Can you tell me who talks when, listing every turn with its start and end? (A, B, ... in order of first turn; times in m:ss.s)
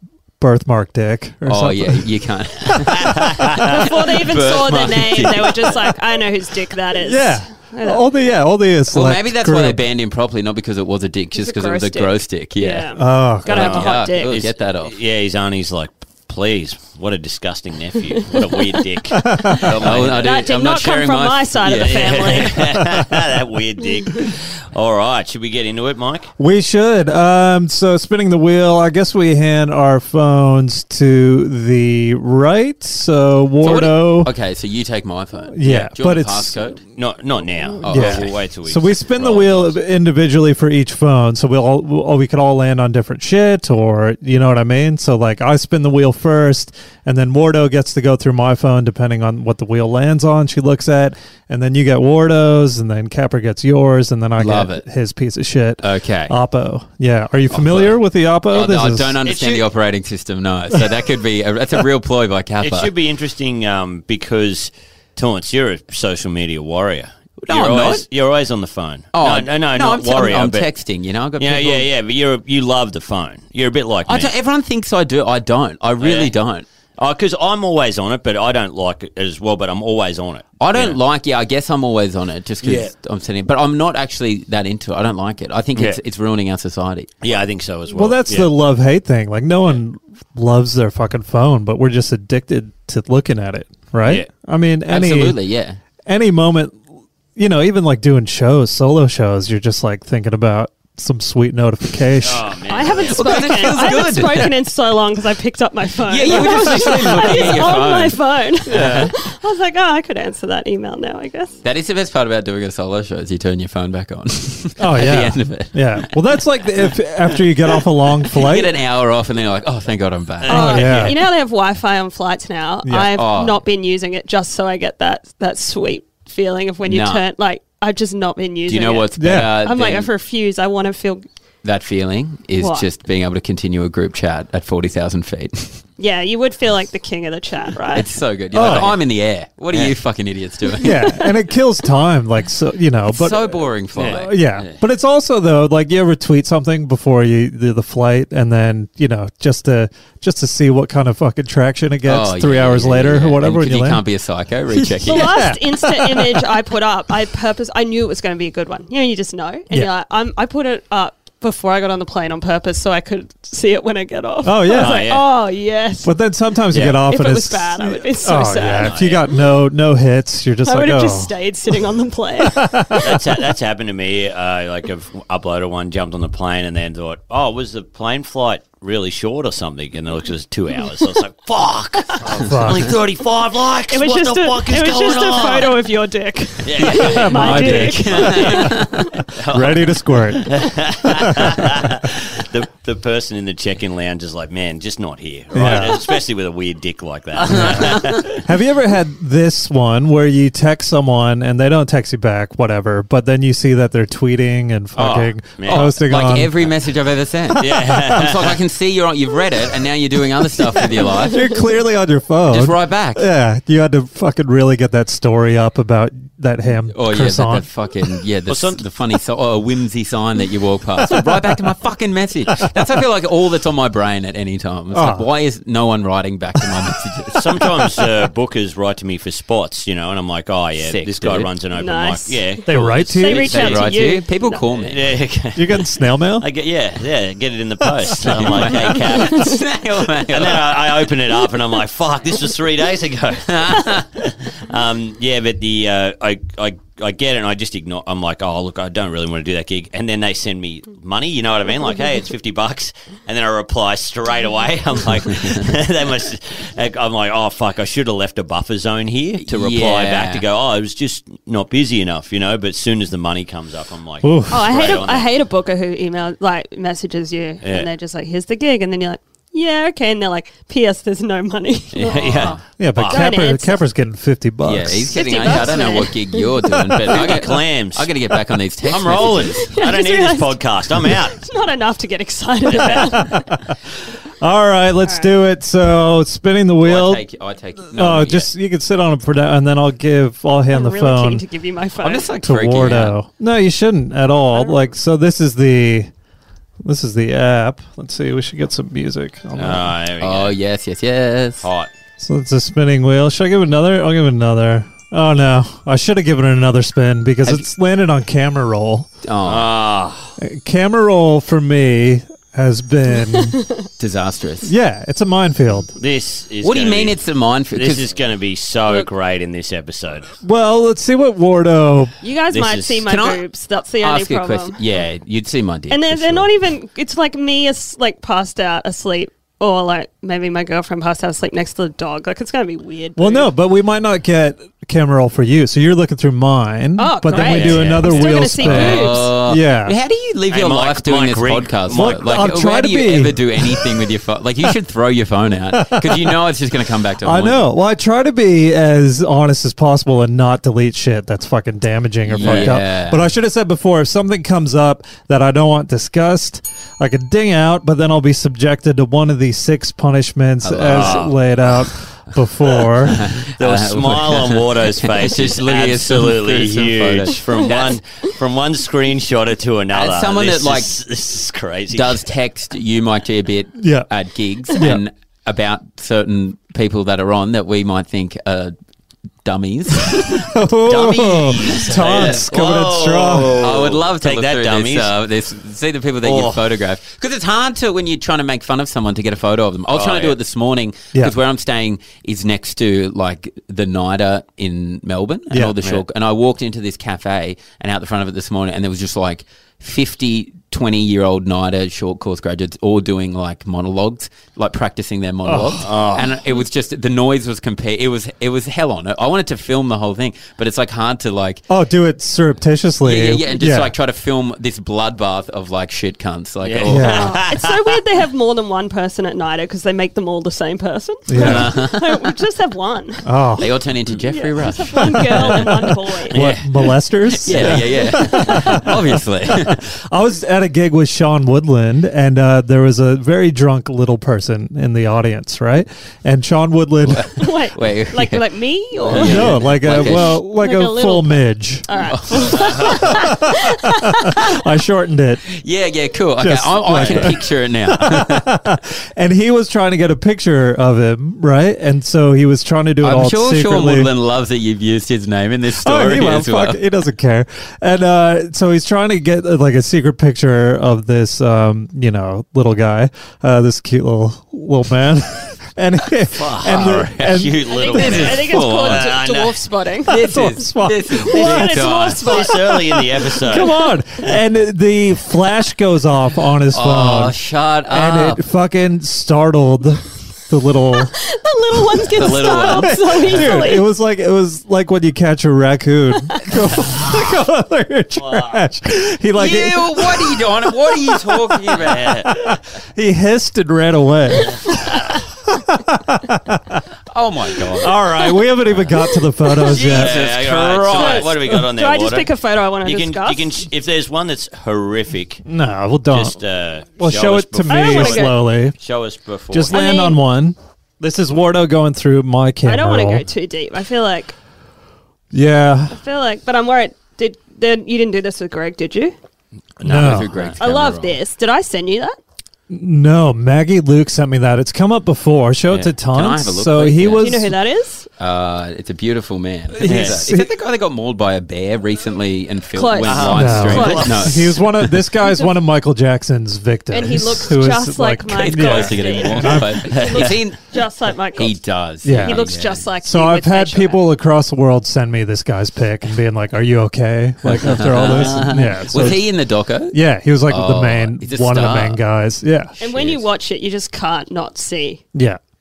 0:00.4-0:02.1 A
0:01.4-0:05.9 B
0:03.0-0:03.6 C
0:03.6-0:08.0 D
0:07.0-0:09.8 A
0:08.9-0:14.9 B
0:11.4-0:14.4 D
0:13.0-0:13.7 A
0:13.5-0:20.3 C
0:19.1-0:19.7 A
0:19.5-0:22.8 B
0:19.9-0:22.6 D
0:21.7-0:26.3 C
0:26.4-0:34.3 A
0:33.6-0:36.8 B
0:35.5-0:36.5 A
0:37.0-0:39.8 C
0:37.8-0:38.4 B
0:37.8-0:59.2 A
0:54.4-0:54.8 B
0:55.8-0:56.3 B
0:57.5-1:02.9 B
0:59.2-0:59.6 C
1:02.6-1:10.7 C
1:07.4-1:08.0 B
1:09.1-1:11.9 B
1:11.4-1:14.3 C
1:14.1-1:16.6 B
1:16.0-1:16.3 C
1:17.0-1:21.0 C
1:20.6-1:27.1 B
1:22.6-1:22.9 C
1:25.7-1:26.0 C
1:27.2-1:28.5 C
1:27.9-1:35.4 A
1:34.9-1:35.8 B
1:36.1-1:36.8 A
1:37.4-1:42.5 A
1:42.2-1:43.5 C
1:42.7-1:51.5 D
1:43.0-1:44.6 B
1:46.0-1:48.2 B
1:48.7-1:49.1 A
1:48.7-1:49.1 C
1:51.6-1:56.8 B
1:54.8-1:58.7 A
1:57.4-2:01.0 B
2:00.4-2:01.2 C
2:00.5-2:11.2 D
2:00.5-2:01.2 A
2:02.8-2:03.1 A
2:03.1-2:03.6 B
2:06.8-2:07.2 B
2:08.6-2:10.1 B
2:09.2-2:09.5 A
2:11.6-2:15.8 B
2:12.6-2:12.9 D
2:16.0-2:18.1 D
2:17.9-2:21.3 B
2:18.5-2:19.0 A
2:20.8-2:34.0 A
2:23.1-2:24.4 B
2:23.9-2:24.7 C
2:32.0-2:35.5 B
2:35.0-2:36.4 A
2:35.0-2:46.1 D
2:44.4-2:45.0 A
2:44.7-2:45.3 C
2:46.0-2:51.3 A
2:46.7-2:47.0 C
2:46.8-2:49.1 D
2:48.5-2:49.3 C
2:50.6-2:53.2 D
2:52.5-2:53.1 A
2:53.0-3:05.7 C
3:02.3-3:02.9 A
3:03.9-3:08.8 D
3:06.6-3:08.7 C
3:06.8-3:09.2 B
3:06.9-3:08.7 A
3:09.3-3:18.4 C
3:09.5-3:12.1 A
3:15.5-3:16.0 A
3:17.5-3:18.3 B
3:17.5-3:26.5 A
3:24.9-3:31.6 B
3:25.6-3:25.9 C
3:27.6-3:28.6 C
3:31.2-3:37.7 A
3:32.5-3:33.2 B
3:36.9-3:47.8 B
3:38.5-3:38.8 C
3:44.9-3:45.2 A
3:47.3-3:54.0 C
3:50.8-3:51.5 B
3:51.7-3:52.6 D
3:52.7-3:53.5 A
3:53.2-3:54.6 D
3:53.3-3:55.0 B
3:54.8-3:59.6 C
3:55.5-3:56.4 A
3:58.2-4:01.0 B
3:59.1-3:59.6 D
4:00.3-4:25.3 C
4:03.5-4:04.0 B
4:19.4-4:20.4 B
4:24.2-4:24.7 A
4:24.5-4:33.8 D
4:27.6-4:27.9 C
4:31.9-4:33.2 C
4:32.0-4:32.6 B
4:32.8-4:35.4 A
4:34.6-4:39.7 B
4:35.1-4:36.7 D
4:37.0-4:38.2 C
4:38.8-4:41.4 C
4:39.5-4:43.5 D
4:42.8-4:43.0 C
4:42.9-4:43.7 A
4:44.4-4:47.2 A
4:45.0-4:45.3 D
4:46.8-4:48.5 B
4:47.9-4:51.4 A
4:50.7-4:52.3 D
4:52.0-4:53.2 B
4:52.4-4:56.1 A
4:54.5-4:54.8 D
4:56.8-4:59.9 A
4:59.6-5:00.5 C
5:00.2-5:01.7 B
5:01.6-5:01.9 C
5:02.2-5:09.1 A
5:09.2-5:09.7 B
5:09.4-5:10.3 C
5:10.4-5:13.6 A
5:14.0-5:14.7 B
5:14.6-5:15.9 A
5:15.9-5:20.3 C
5:16.6-5:18.1 B
5:20.4-5:22.2 A
5:22.2-5:24.8 D
5:22.5-5:23.1 C
5:23.0-5:23.4 B
5:24.0-5:26.5 B
5:25.9-5:33.5 D
5:33.2-5:40.0 A
5:37.0-5:39.3 D
5:37.4-5:38.3 C
5:37.5-5:47.7 B
5:40.5-5:42.4 C
5:41.9-5:43.9 A
5:45.7-5:46.4 A
5:47.2-6:03.3 A
5:52.2-5:53.2 B
5:52.4-5:52.7 C
6:00.6-6:01.9 B
6:00.9-6:01.3 C
6:03.0-6:08.0 B
6:03.2-6:12.2 C
6:09.9-6:10.9 B
6:11.9-6:18.7 B
6:13.8-6:14.1 A
6:14.7-6:15.0 A
6:19.4-6:22.4 B
6:20.1-6:23.6 A
6:20.9-6:25.1 C
6:23.5-6:51.6 B
6:26.2-6:26.6 C
6:29.9-6:30.4 C
6:35.5-6:35.8 A
6:45.4-6:45.9 A
6:45.8-6:46.3 C
6:51.7-6:53.9 A
6:53.0-6:57.4 B
6:56.6-6:57.8 C
6:56.9-6:57.4 A
6:57.0-7:03.2 D
7:01.3-7:01.7 A
7:01.4-7:02.3 B
7:03.2-7:03.7 A
7:03.6-7:06.5 B
7:04.2-7:06.3 D
7:06.3-7:06.9 C
7:06.3-7:17.4 A
7:07.3-7:09.8 B
7:07.5-7:07.8 C
7:17.0-7:18.4 B
7:17.4-7:24.5 D
7:19.0-7:20.4 B
7:19.0-7:19.6 C
7:19.2-7:21.8 A
7:22.0-7:23.0 B
7:22.8-7:25.4 A
7:25.5-7:28.6 B
7:26.4-7:34.1 A
7:27.0-7:27.2 C
7:33.0-7:36.8 B
7:35.8-7:47.7 A
7:46.3-7:49.6 C
7:46.6-7:49.1 B
7:47.7-7:50.2 D
7:50.0-7:52.6 B
7:50.1-7:52.0 A
7:51.2-7:53.0 D
7:52.2-7:53.8 C
7:52.7-7:57.4 A
7:56.7-7:58.4 B
7:57.9-8:01.1 A
8:01.0-8:03.8 D
8:02.1-8:03.6 B
8:02.3-8:10.3 A
8:08.2-8:08.6 C
8:09.3-8:12.2 B
8:11.7-8:12.3 C
8:12.2-8:16.8 A
8:17.1-8:18.0 B
8:17.8-8:20.2 A
8:19.6-8:21.4 B
8:19.8-8:22.3 C
8:20.9-8:23.6 D
8:22.8-8:25.4 C
8:25.4-8:26.4 A
8:26.1-8:29.8 C
8:27.0-8:28.8 A
8:27.7-8:28.4 D
8:29.5-8:33.2 A
8:29.7-8:30.2 D
8:32.6-8:34.3 D
8:35.3-8:36.0 A
8:35.9-8:39.1 D
8:39.8-8:40.6 C
8:39.8-8:40.3 A
8:39.8-8:41.2 B
8:40.6-8:42.2 D
8:42.7-8:47.5 A
8:46.1-8:47.4 B
8:47.2-8:48.1 D
8:48.2-8:54.9 B
8:49.7-8:50.5 A
8:49.8-8:50.2 C
8:52.7-8:54.5 D
8:53.0-8:54.3 C
8:53.3-8:59.8 A
8:56.9-9:04.0 D
8:58.4-9:00.6 B
8:59.8-9:00.4 C
9:01.3-9:02.9 B
9:02.0-9:09.3 A
9:07.4-9:12.0 B
9:07.9-9:08.6 C
9:09.9-9:12.7 A
9:12.8-9:15.0 D
9:12.8-9:13.2 C